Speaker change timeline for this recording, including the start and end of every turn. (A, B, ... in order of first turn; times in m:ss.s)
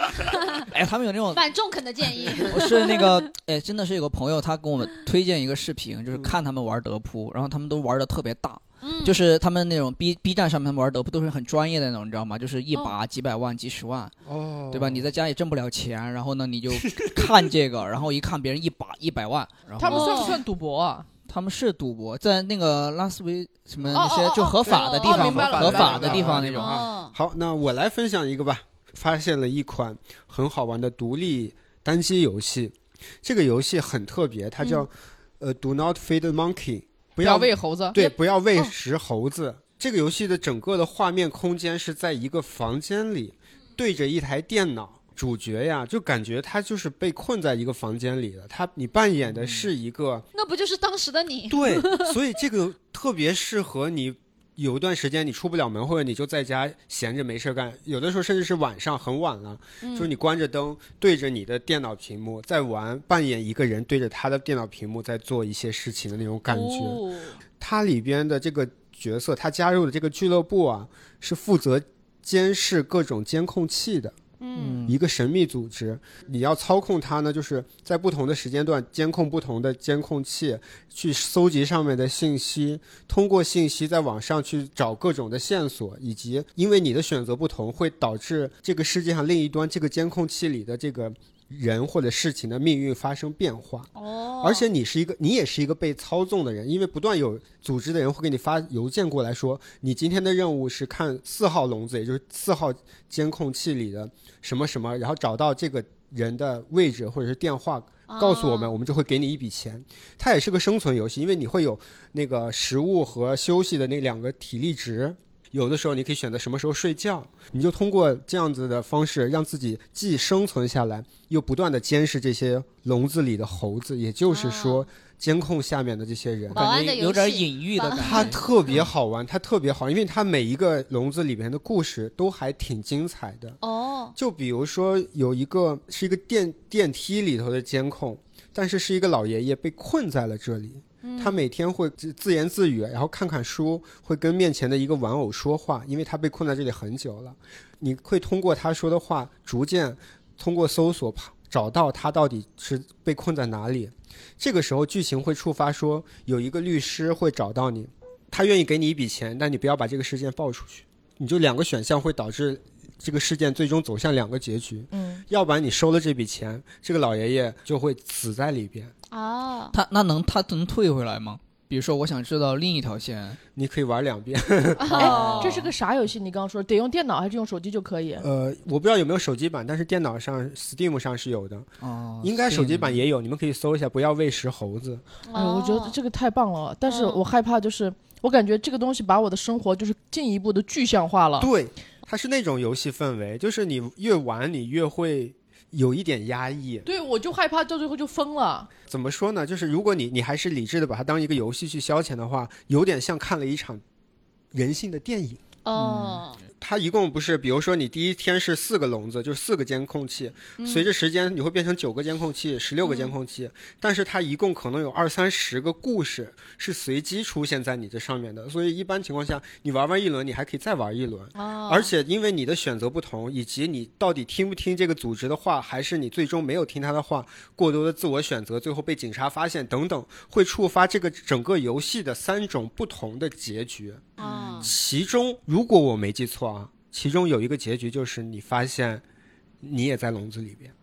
0:00.2-0:00.6 A
0:00.6-0:01.4 B
0:01.3-0:03.2 A
0:02.4-0:14.1 B
0:08.8-0:09.2 A
0:14.2-0:15.1 C
0:14.7-0:20.4 B
0:16.8-0:17.4 C
0:19.8-0:21.1 D
0:19.9-0:20.4 A
0:21.3-0:26.8 B
0:23.9-0:26.6 D
0:24.6-0:50.2 C
0:24.7-0:25.4 A
0:26.6-0:27.1 A
0:37.2-0:38.0 D
0:38.0-0:38.7 A
0:49.4-0:49.7 B
0:50.3-0:52.2 A
0:51.5-1:07.0 C
0:59.8-1:00.1 A
1:06.5-1:07.4 A
1:07.6-1:14.2 C
1:14.4-1:14.8 A
1:14.6-1:15.0 B
1:14.9-1:33.9 C
1:34.0-1:34.6 A
1:34.4-2:06.7 C
1:48.1-1:48.8 A
2:04.3-2:04.9 A
2:06.5-2:08.8 B
2:06.5-2:08.8 A
2:08.0-2:13.6 C
2:13.6-2:14.2 A
2:14.2-2:48.9 C
2:21.0-2:21.4 A
2:44.9-2:45.2 D
2:49.1-2:49.8 A
2:49.7-2:53.4 B
2:53.6-2:55.3 C
2:54.8-2:55.6 A
2:54.9-2:58.3 D
2:55.0-2:55.7 B
2:58.2-3:01.7 C
3:01.8-3:03.0 B
3:02.2-3:05.0 C
3:05.3-3:06.0 A
3:05.3-3:11.5 D
3:06.9-3:07.2 A
3:11.4-3:16.9 C
3:16.8-3:18.7 D
3:18.9-3:23.8 C
3:24.5-3:25.4 C
3:25.6-3:26.4 A
3:25.8-3:26.2 B
3:26.6-3:59.0 C
3:30.6-3:30.9 A
3:32.8-3:33.1 A
3:41.3-3:41.9 A
3:54.2-3:54.7 A
3:59.6-4:00.7 C